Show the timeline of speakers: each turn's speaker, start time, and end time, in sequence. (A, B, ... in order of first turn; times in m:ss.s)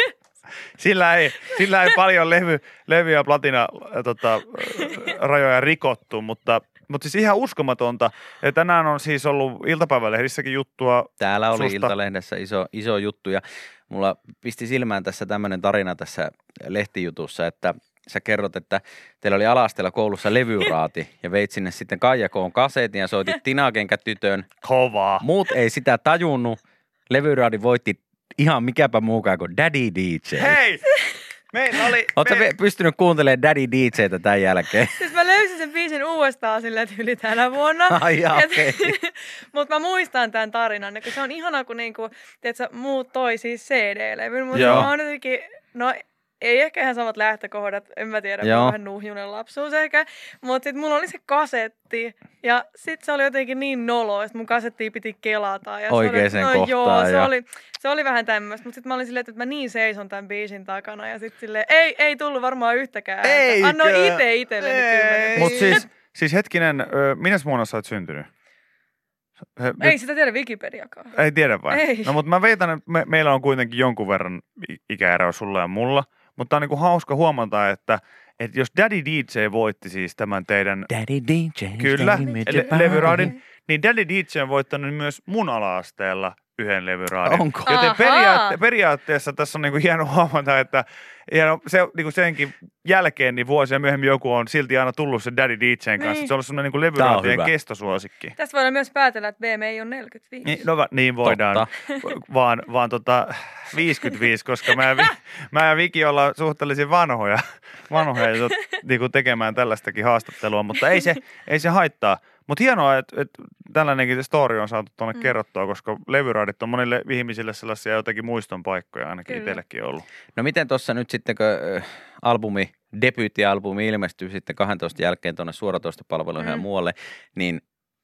0:00.8-0:11.9 A
0:11.2-0:24.5 B
0:24.6-0:25.2 A
0:25.3-0:26.6 B
0:27.1-0:30.5 B
0:30.4-0:31.0 A
0:31.5-0:32.5 A
0:32.2-0:34.9 B
0:35.0-1:05.8 C
0:37.9-0:38.6 B
0:44.5-0:44.9 A
0:44.5-0:44.9 B
0:55.9-0:57.2 B
1:03.2-1:04.2 A
1:05.3-1:08.3 A
1:05.4-1:05.8 B
1:09.6-1:10.0 A
1:09.8-1:11.2 C
1:11.1-1:20.9 A
1:11.7-1:12.2 C
1:20.9-1:23.3 B
1:21.8-1:38.3 A
1:27.3-1:27.7 B
1:27.6-1:28.6 C
1:36.0-1:36.3 C
1:37.0-1:37.5 B
1:38.4-1:40.6 C
1:40.4-2:00.0 A
1:41.2-1:41.6 B
1:59.3-1:59.6 C
2:00.4-2:07.6 B
2:06.4-2:06.6 C